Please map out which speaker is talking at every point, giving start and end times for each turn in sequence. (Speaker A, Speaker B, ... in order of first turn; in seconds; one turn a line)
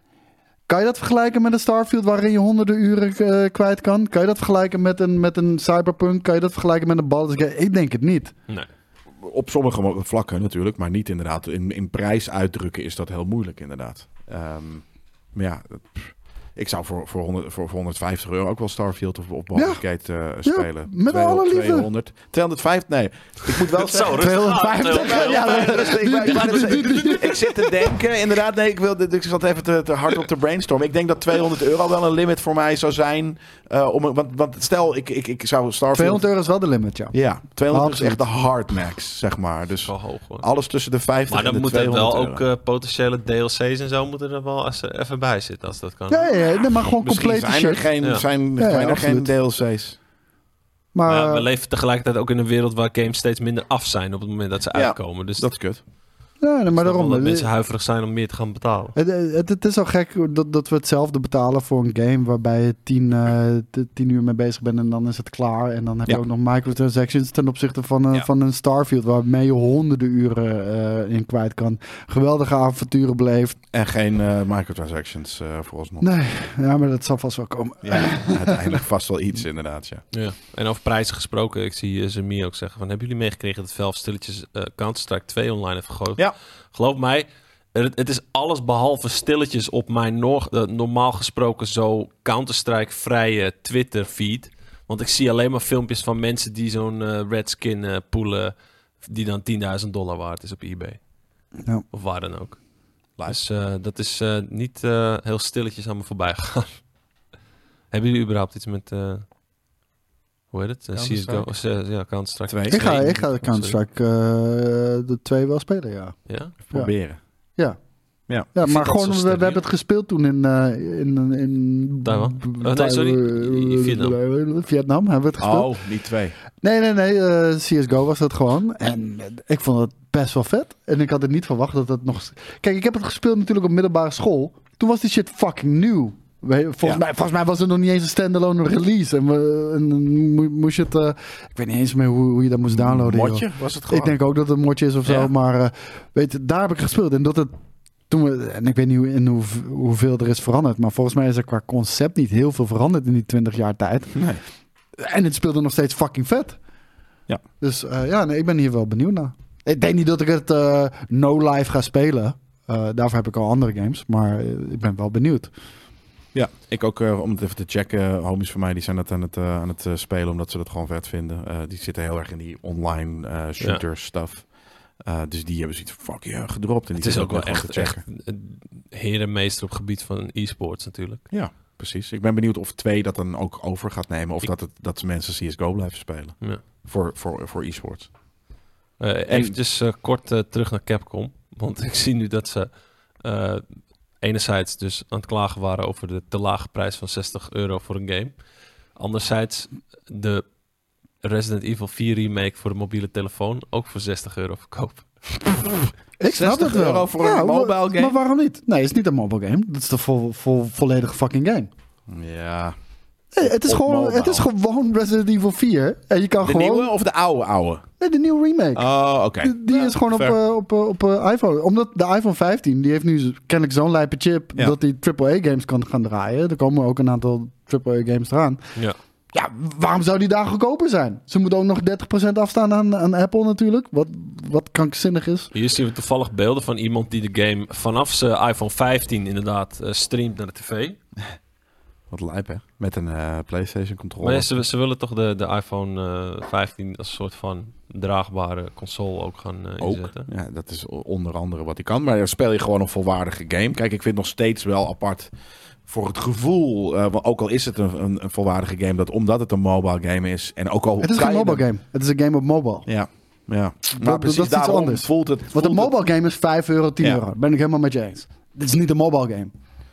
Speaker A: 0.7-8.3
Speaker B: 9.2-36.2
Speaker A: 19.5-19.8
Speaker A: 20.4-21.9
Speaker C: 23.6-27.3
Speaker A: 24.1-27.9
Speaker A: 35.9-37.1
Speaker B: 37.1-42.4
Speaker A: 37.7-38.2
Speaker C: 39.8-40.5
Speaker C: 41.3-46.3
Speaker A: 46.1-47.9
Speaker B: 47.0-50.0
Speaker A: 48.6-49.3
Speaker A: 50.9-51.5
Speaker C: 51.0-55.5
Speaker B: 54.7-55.8
Speaker A: 56.4-57.5
Speaker C: 56.7-58.9
Speaker A: 59.0-73.6
Speaker B: 73.7-76.1
Speaker A: 76.0-78.8
Speaker B: 77.8-80.0
Speaker C: 80.1-101.0
Speaker C: 101.9-102.6
Speaker C: 103.2-106.8
Speaker C: 107.9-109.2
Speaker C: 110.5-113.8
Speaker B: 110.9-111.5
Speaker B: 112.5-113.0
Speaker A: 112.7-116.2
Speaker C: 116.3-116.5
Speaker B: 116.7-117.2
Speaker A: 118.5-125.7
Speaker C: 118.6-119.6
Speaker C: 122.0-124.2
Speaker B: 125.4-126.3
Speaker A: 126.6-147.5
Speaker B: 142.7-144.2
Speaker B: 145.1-145.3
Speaker A: 148.1-154.3
Speaker B: 154.1-154.4
Speaker A: 155.0-156.6
Speaker A: 157.6-165.5
Speaker B: 166.3-174.5
Speaker B: 175.0-178.0
Speaker C: 177.0-181.2
Speaker B: 181.3-188.1
Speaker C: 189.0-198.4
Speaker B: 189.3-189.6
Speaker C: 198.9-200.5
Speaker C: 201.2-205.1
Speaker A: 206.2-211.7
Speaker B: 206.2-208.2
Speaker B: 212.1-212.8
Speaker A: 213.3-216.9
Speaker B: 213.4-214.5
Speaker B: 216.4-217.8
Speaker A: 218.0-218.9
Speaker B: 218.7-220.4
Speaker A: 219.4-228.6
Speaker A: 229.3-235.5
Speaker C: 235.5-241.0
Speaker B: 242.1-244.6
Speaker C: 244.2-250.3
Speaker B: 249.8-255.3
Speaker B: 255.8-261.6
Speaker A: 261.0-262.9
Speaker B: 262.9-266.0
Speaker A: 263.9-269.5